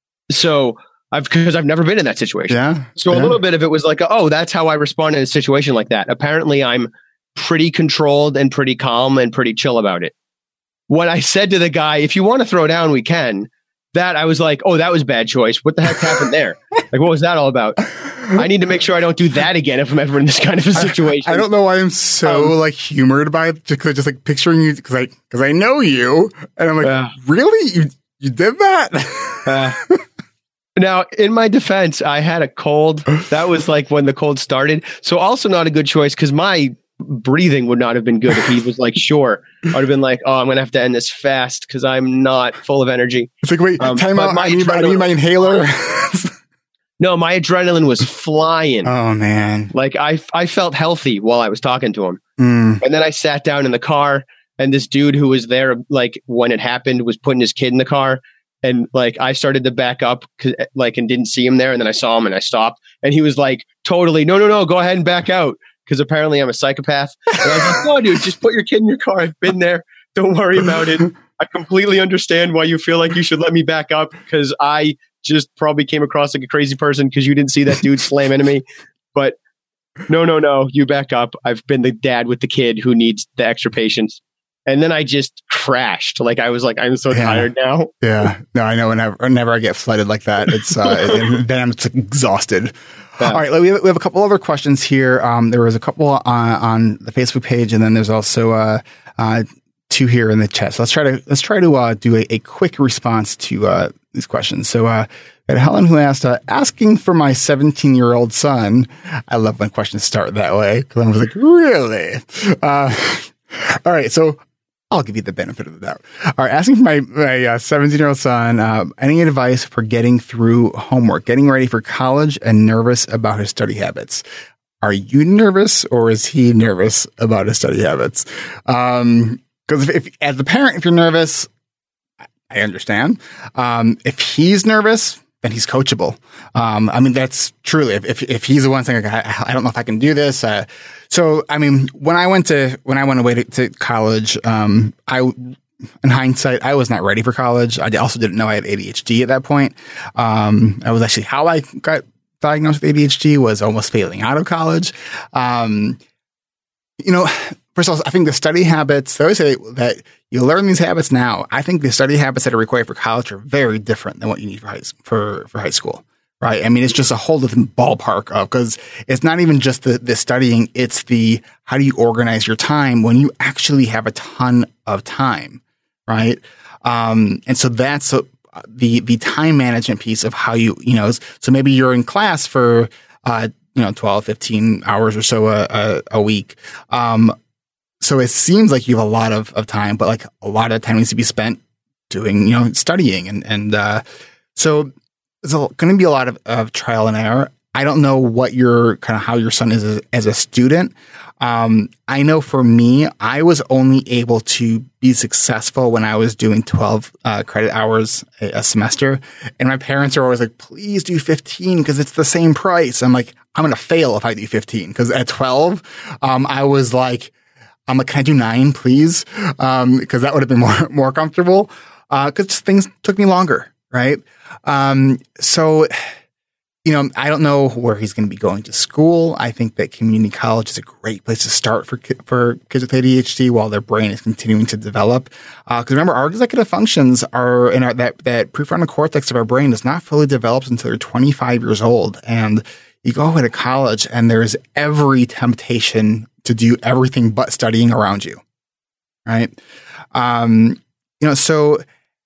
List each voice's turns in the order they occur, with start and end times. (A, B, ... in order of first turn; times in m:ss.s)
0:00.3-0:10.1 A
0:02.5-0:03.4 B
0:10.9-0:21.5 A
0:20.8-0:30.0 B
0:22.2-0:22.5 A
0:26.8-0:27.1 A
0:29.5-0:29.8 A
0:30.8-0:45.6 A
0:43.4-0:46.3 B
0:47.0-0:48.9 A
0:48.8-0:49.7 B
0:49.7-0:52.2 A
0:52.4-0:52.8 B
0:52.8-1:19.4 A
1:20.1-1:27.9 A
1:27.1-1:27.5 B
1:28.0-2:04.2 B
2:04.8-2:11.5 B
2:12.5-2:36.0 B
2:37.0-3:07.4 B
3:08.0-3:14.0 B
3:14.6-3:14.9 B
3:15.4-3:37.3 B
3:37.9-3:46.1 B
3:46.9-4:08.4 B
4:09.3-4:09.6 B
4:10.1-4:11.8 B